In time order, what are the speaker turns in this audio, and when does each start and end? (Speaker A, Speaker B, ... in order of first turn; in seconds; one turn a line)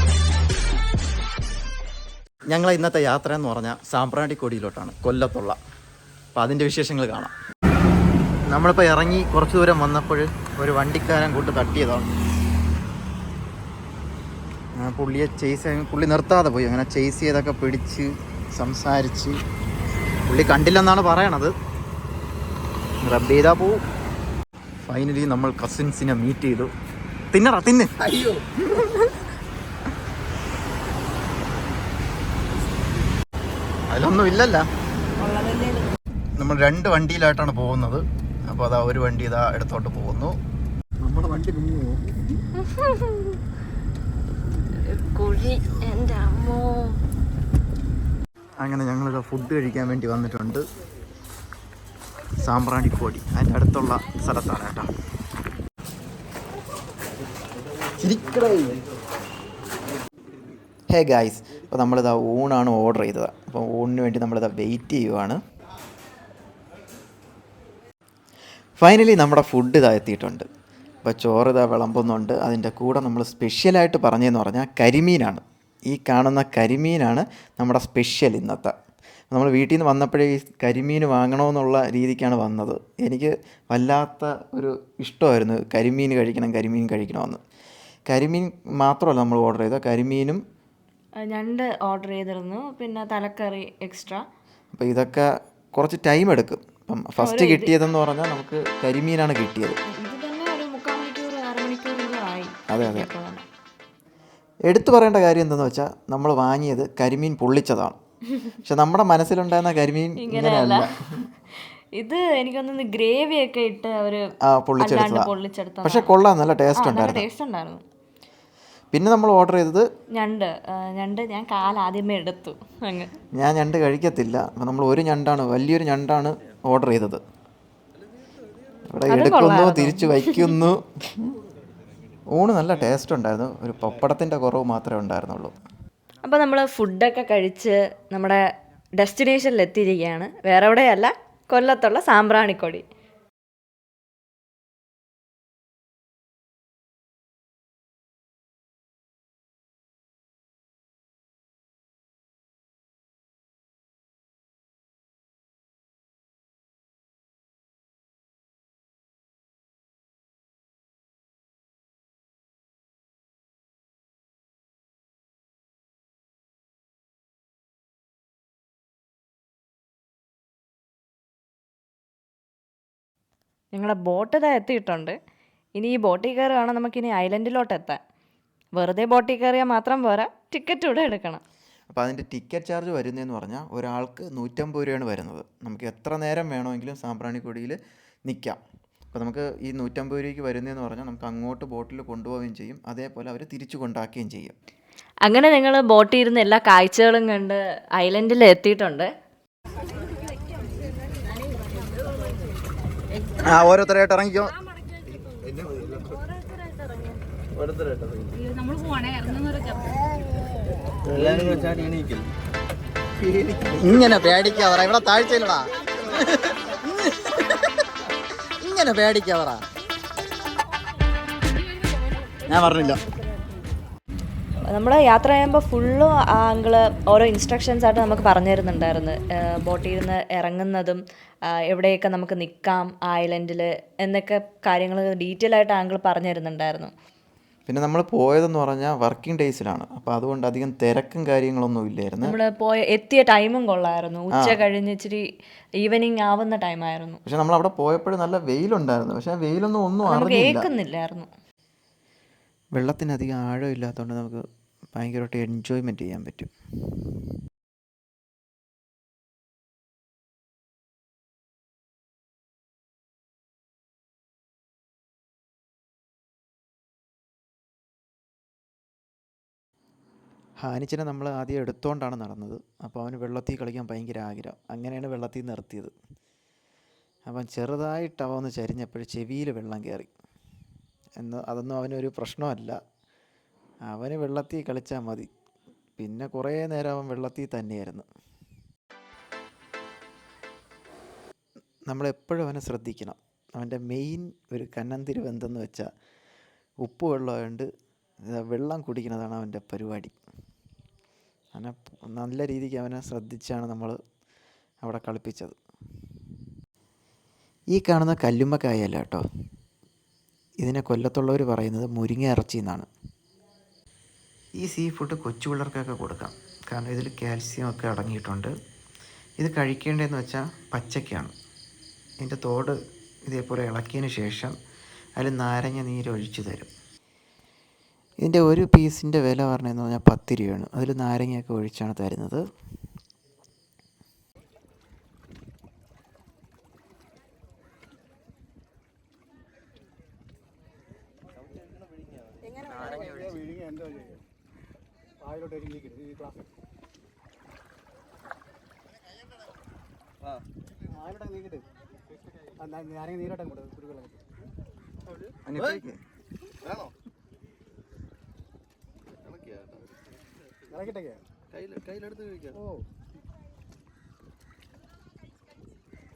Speaker A: 2.5-5.6
Speaker A: 6.3-7.3
Speaker A: 8.5-12.1
Speaker A: 14.8-19.4
Speaker A: 20.3-21.5
Speaker A: 23.0-23.8
Speaker A: 24.9-26.7
Speaker A: 27.3-28.9
Speaker A: 33.9-34.6
Speaker B: 35.2-35.9
Speaker A: 36.4-40.4
Speaker A: 41.0-42.0
Speaker B: 42.6-43.4
Speaker B: 44.9-47.0
Speaker A: 48.6-50.6
Speaker A: 52.4-54.9
Speaker A: 58.0-58.8
Speaker A: 60.9-65.4
Speaker A: 68.8-70.5
Speaker A: 71.0-78.7
Speaker A: 79.3-87.4
Speaker A: 88.1-90.4
Speaker B: 91.2-94.2
Speaker A: 94.7-99.8
Speaker B: 97.2-97.7
Speaker B: 99.9-103.4
Speaker A: 102.7-103.1
Speaker A: 104.7-108.0
Speaker A: 108.6-110.9
Speaker B: 110.2-110.9
Speaker B: 112.0-114.2
Speaker A: 114.5-115.3
Speaker B: 114.8-116.1
Speaker A: 115.8-117.2
Speaker B: 116.8-117.8
Speaker A: 118.9-119.9
Speaker B: 120.1-123.1
Speaker A: 123.4-127.2
Speaker A: 128.9-131.1
Speaker B: 129.1-130.5
Speaker A: 132.3-135.6
Speaker B: 136.2-138.4
Speaker B: 139.0-142.8
Speaker B: 173.7-175.2
Speaker B: 175.8-178.0
Speaker B: 178.8-181.4
Speaker A: 181.9-188.6
Speaker A: 189.1-194.6
Speaker B: 195.2-199.1
Speaker A: 203.4-204.5
Speaker A: 205.5-205.8
Speaker A: 207.6-208.5
Speaker A: 211.1-212.0
Speaker A: 213.4-217.7
Speaker A: 218.6-219.7
Speaker A: 222.5-223.0
Speaker B: 224.7-231.0
Speaker B: 231.7-236.9
Speaker A: 237.7-242.4
Speaker B: 242.2-245.2
Speaker B: 245.8-247.2
Speaker A: 247.3-250.7
Speaker B: 250.1-251.3
Speaker A: 252.8-254.4
Speaker A: 254.9-256.5
Speaker A: 270.6-275.9
Speaker A: 277.3-280.1
Speaker A: 281.2-282.8
Speaker A: 283.9-285.3
Speaker A: 286.0-288.1
Speaker A: 291.9-295.9
Speaker A: 296.8-297.7
Speaker A: 298.2-300.1
Speaker A: 301.5-304.0
Speaker A: 304.8-305.6
Speaker A: 307.7-309.2
Speaker A: 310.6-312.9
Speaker A: 314.6-318.5
Speaker A: 319.4-321.3
Speaker A: 322.2-324.6
Speaker A: 325.2-326.7
Speaker A: 328.2-332.4
Speaker A: 342.8-343.4
Speaker C: 343.6-344.1
Speaker C: 345.3-346.3
Speaker C: 351.0-351.6
Speaker C: 352.6-354.1
Speaker A: 355.5-356.0
Speaker C: 360.8-361.2